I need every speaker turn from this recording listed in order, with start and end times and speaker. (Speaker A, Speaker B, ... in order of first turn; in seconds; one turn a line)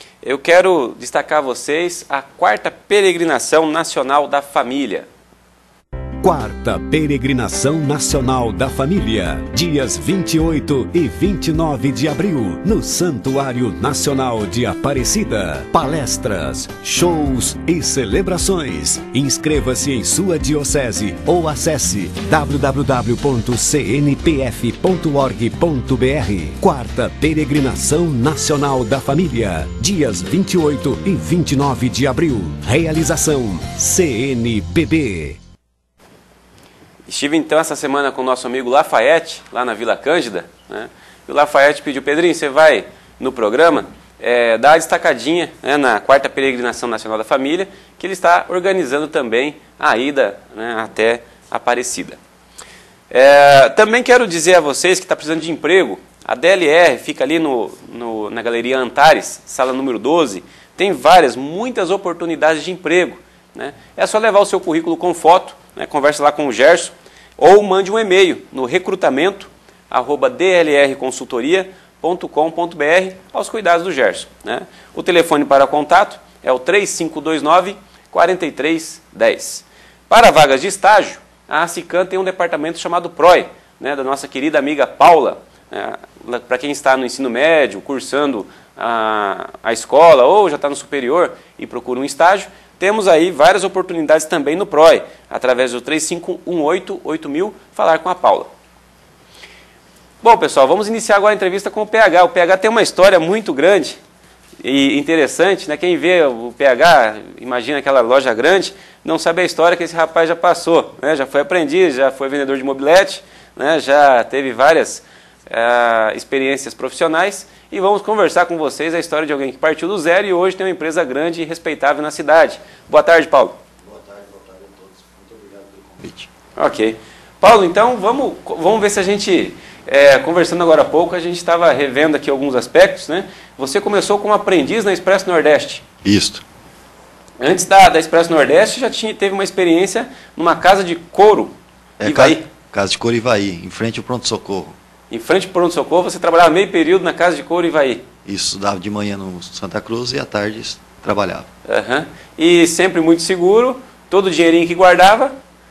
Speaker A: 0.2-5.1
Speaker B: 6.2-35.4
Speaker A: 37.1-52.2
Speaker A: 53.1-98.5
Speaker A: 100.2-104.0
Speaker A: 104.6-123.6
Speaker C: 123.8-126.3
Speaker A: 126.6-135.8
Speaker C: 136.0-136.4
Speaker A: 137.4-142.5
Speaker C: 142.0-144.7
Speaker A: 145.1-148.0
Speaker C: 148.3-151.5
Speaker A: 151.7-155.3